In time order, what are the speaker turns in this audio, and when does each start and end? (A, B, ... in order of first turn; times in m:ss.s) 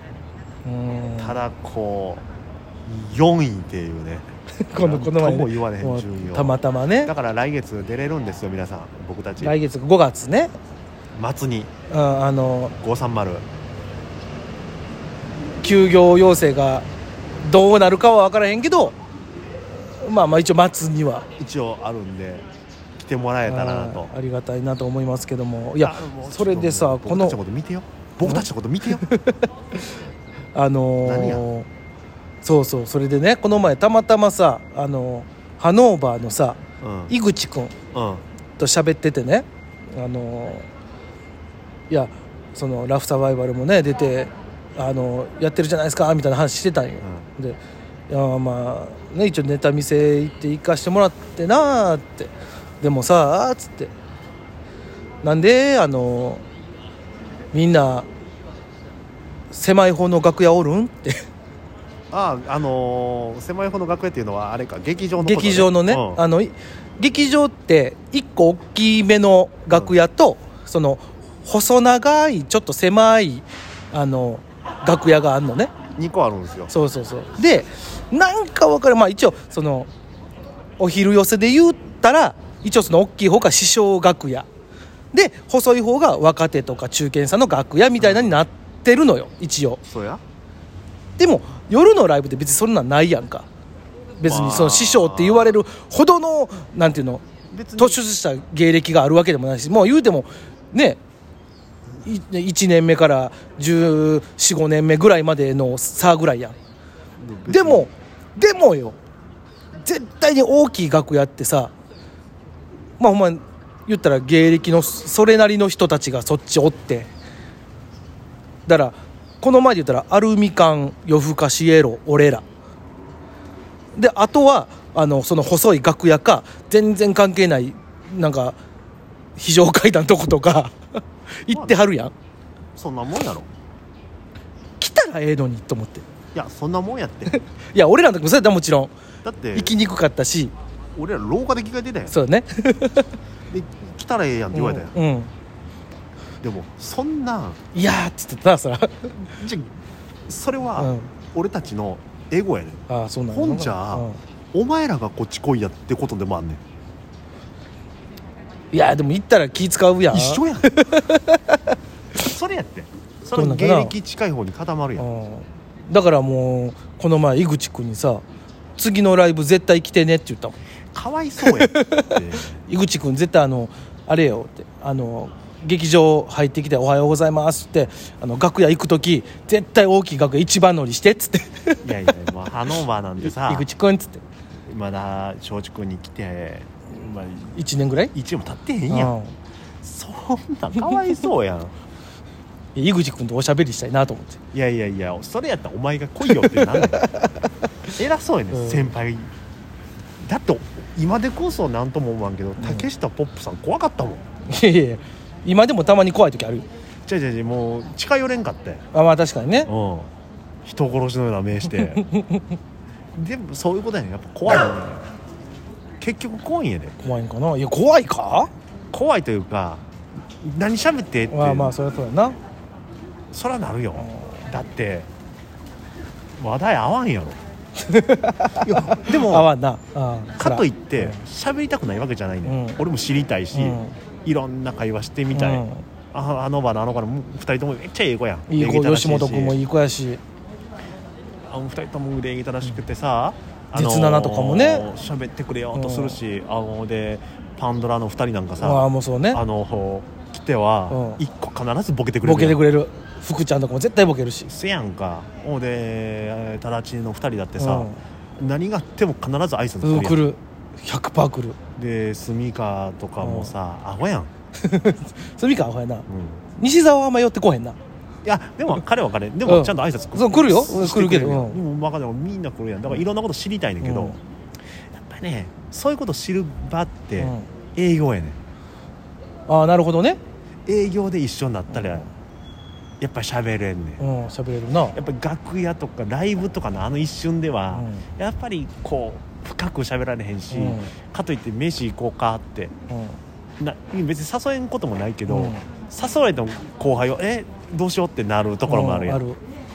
0:00.6-0:01.4 A
0:01.2-0:02.2 B
0:02.8-0:09.5 B
0:04.7-0:07.1 A
0:09.4-0:10.5 A
0:11.1-0:11.7 B
0:11.9-0:12.8 A
0:12.8-0:13.4 B
0:15.6-0:16.9 A
0:17.4-0:19.0 A
0:20.0-0:21.3 A
0:21.4-0:22.4 B
0:23.0-0:24.1 B
0:23.4-0:27.4 A
0:25.8-0:29.0 B
0:28.2-0:29.5 A
0:30.5-0:31.7 A
0:31.0-0:31.4 B
0:32.4-0:37.7 A
0:36.8-0:37.1 B
0:37.9-0:38.2 B
0:38.6-0:40.7 A
0:41.9-0:53.9 A
0:47.0-0:47.3 B
0:55.2-0:56.4 A
0:57.5-0:58.1 A
0:59.5-1:01.2 A
1:02.1-1:06.2 B
1:05.2-1:15.7 A
1:15.9-1:16.7 B
1:16.7-1:19.9 A
1:20.8-1:24.5 A
1:25.1-1:29.8 A
1:28.0-1:28.4 B
1:29.9-1:30.2 B
1:31.2-1:33.5 A
1:34.2-1:37.2 A
1:34.2-1:35.6 B
1:37.5-1:38.0 B
1:37.8-1:41.0 A
1:42.0-1:46.6 A
1:47.2-1:47.9 B
1:47.5-1:49.0 A
1:49.8-1:51.7 A
1:53.0-1:57.1 A
1:58.6-2:02.4 A
2:03.9-2:08.6 A
2:09.4-2:10.7 A
2:11.4-2:12.1 A
2:11.5-2:11.8 B
2:12.8-2:13.5 B
2:14.8-2:16.0 A
2:16.3-2:17.4 B
2:17.3-2:18.9 A
2:19.2-2:19.8 B
2:19.5-2:20.5 A
2:20.9-2:22.2 B
2:22.1-2:23.1 A
2:23.5-2:24.9 B
2:24.5-2:25.3 A
2:26.4-2:27.6 B
2:27.7-2:29.3 A
2:29.3-2:29.7 B
2:30.3-2:36.6 B
2:30.8-2:31.1 A
2:32.9-2:34.2 A
2:38.7-2:41.6 A
2:40.1-2:40.9 B
2:42.2-2:45.1 B
2:43.3-2:43.9 A
2:45.0-2:48.2 A
2:48.8-2:50.6 A
2:50.9-2:52.5 B
2:51.5-3:01.9 A
3:01.8-3:03.7 B
3:03.3-3:04.2 A
3:04.7-3:07.6 B
3:07.5-3:08.1 A
3:08.1-3:09.2 B
3:08.9-3:09.3 A
3:09.8-3:11.7 B
3:12.7-3:14.4 A
3:14.5-3:17.0 B
3:16.2-3:17.5 A
3:18.0-3:19.3 B
3:18.5-3:18.9 A
3:20.2-3:24.2 B
3:22.6-3:22.9 A
3:24.4-3:26.7 A
3:27.0-3:28.8 B
3:28.9-3:29.7 A
3:29.6-3:30.1 B
3:30.6-3:32.0 B
3:31.7-3:32.6 A
3:33.1-3:35.1 B
3:36.0-3:37.0 B
3:37.0-3:38.5 A
3:38.9-3:41.7 B
3:41.3-3:42.4 A
3:43.3-3:45.1 B
3:44.0-3:44.4 A
3:46.4-3:47.4 B
3:47.8-3:51.2 A
3:48.6-3:49.5 B
3:50.4-3:59.6 B
3:52.4-3:52.8 A
3:53.5-3:53.9 A
3:55.3-3:55.8 A
3:58.5-4:00.2 A
4:01.5-4:12.6 B
4:03.7-4:04.9 A
4:05.7-4:06.2 A
4:08.6-4:09.4 A
4:10.9-4:11.2 A
4:12.2-4:14.5 A
4:14.4-4:20.3 B
4:17.6-4:18.0 A
4:19.8-4:21.6 A
4:21.8-4:24.3 B
4:23.2-4:23.5 A
4:24.6-4:26.0 A
4:26.1-4:26.4 B
4:26.6-4:27.8 A
4:28.2-4:34.2 B
4:29.4-4:31.6 A
4:33.8-4:34.2 A
4:34.9-4:38.4 B
4:37.2-4:37.5 A
4:39.5-4:40.2 A
4:40.6-4:42.0 B
4:41.7-4:42.1 A
4:43.0-4:44.0 B
4:44.0-4:45.0 A
4:44.9-4:52.7 B
4:47.7-4:48.0 A
4:50.5-4:50.9 A
4:52.9-4:53.2 A
4:53.6-4:59.2 B
4:55.3-4:55.6 A
4:58.7-4:59.4 A